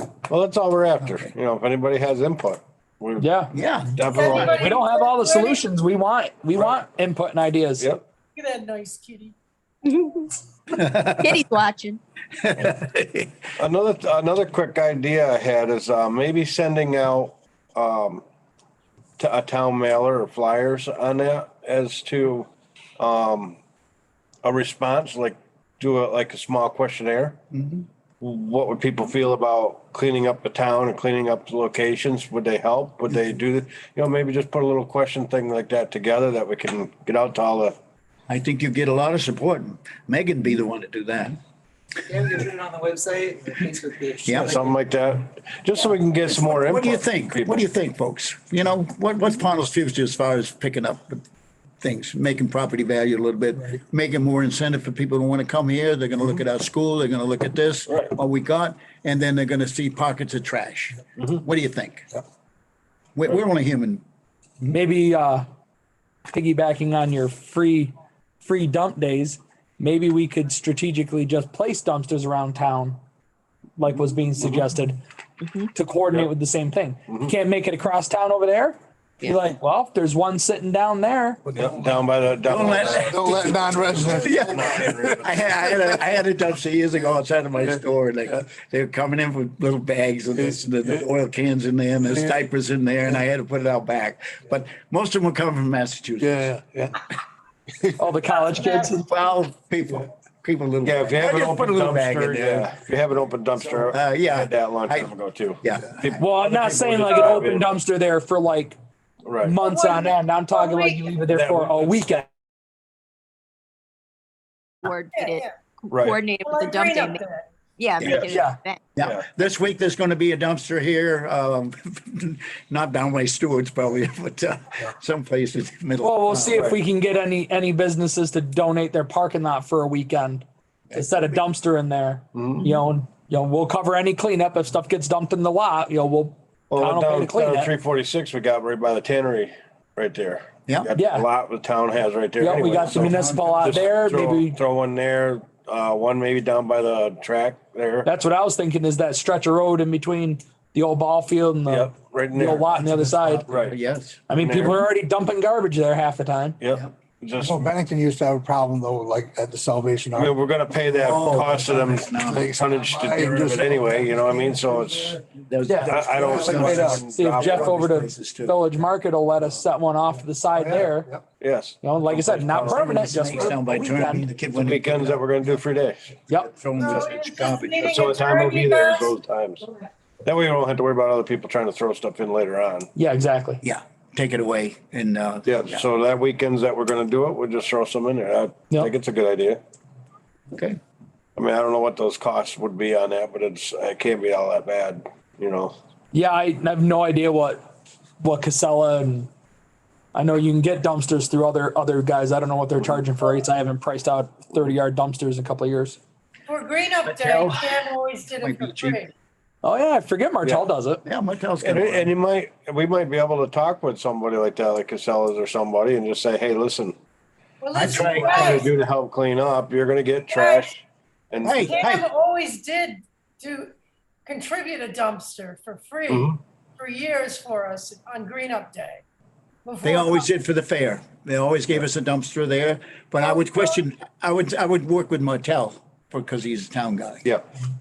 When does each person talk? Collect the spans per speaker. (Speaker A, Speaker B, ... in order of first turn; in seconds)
Speaker A: 0.3-3.3, 3.9-4.8, 7.8-8.0, 13.6-18.2, 19.2-23.6, 24.4-27.4, 28.2-37.8, 44.4-47.6, 57.9-58.1, 81.5-83.3, 83.9-85.8, 100.8-107.7, 109.2-109.5, 111.3-112.0, 115.9-116.2, 118.0-118.4, 126.5-126.8, 132.3-132.7, 136.7-148.1, 151.7-152.7, 153.5-153.8, 154.4-154.8, 156.6-157.7, 160.1-165.2, 165.8-167.7, 171.4-172.8, 174.5-176.2, 177.8-179.7, 180.2-182.9, 185.4-189.6, 191.3-195.7, 211.6-216.9, 218.3-221.8, 226.1-226.3
Speaker B: 1.0-1.3, 3.5-4.5, 10.7-11.4, 12.4-13.3, 27.5-27.9, 38.3-41.4, 44.2-44.6, 46.2-51.2, 51.8-62.1, 63.1-64.0, 82.4-96.5, 99.0-102.7, 103.8-106.2, 119.0-126.7, 130.9-131.3, 142.7-143.8, 152.7-154.2, 160.7-162.6, 165.5-168.6, 172.2-175.2, 176.3-178.0, 183.6-185.8, 190.5-190.8, 207.2-207.6, 208.4-209.0, 211.0-212.1, 217.7-218.7, 221.4-222.1, 229.8-237.3
Speaker C: 3.2-3.5, 4.5-7.9, 64.7-65.5, 66.3-73.0, 73.8-75.0, 75.7-81.4, 98.0-99.1, 106.1-108.8, 109.4-112.3, 118.3-118.6, 126.0-137.7, 140.9-141.3, 142.4-144.6, 148.0-153.5, 154.3-156.6, 165.7-166.0, 166.9-171.1, 171.8-174.3, 182.9-183.6, 196.1-197.6, 198.2-199.3, 200.1-206.0, 209.6-211.0
Speaker D: 4.1-5.6, 8.3-9.3, 98.5-99.0, 107.1-107.4, 109.6-111.1, 115.1-115.5, 116.4-117.5, 176.8-179.1, 206.5-209.1, 217.6-218.7, 220.3-220.7, 221.5-223.7, 224.2-229.0, 229.6-230.2, 233.2-233.8
Speaker E: 9.9-10.3, 11.2-12.0, 114.8-117.2, 117.8-118.8
Speaker F: 42.1-44.7
Speaker G: 81.5-82.0, 82.9-85.1, 90.4-91.0, 96.2-97.0, 157.4-160.4, 162.2-165.1, 166.2-167.0, 170.6-171.2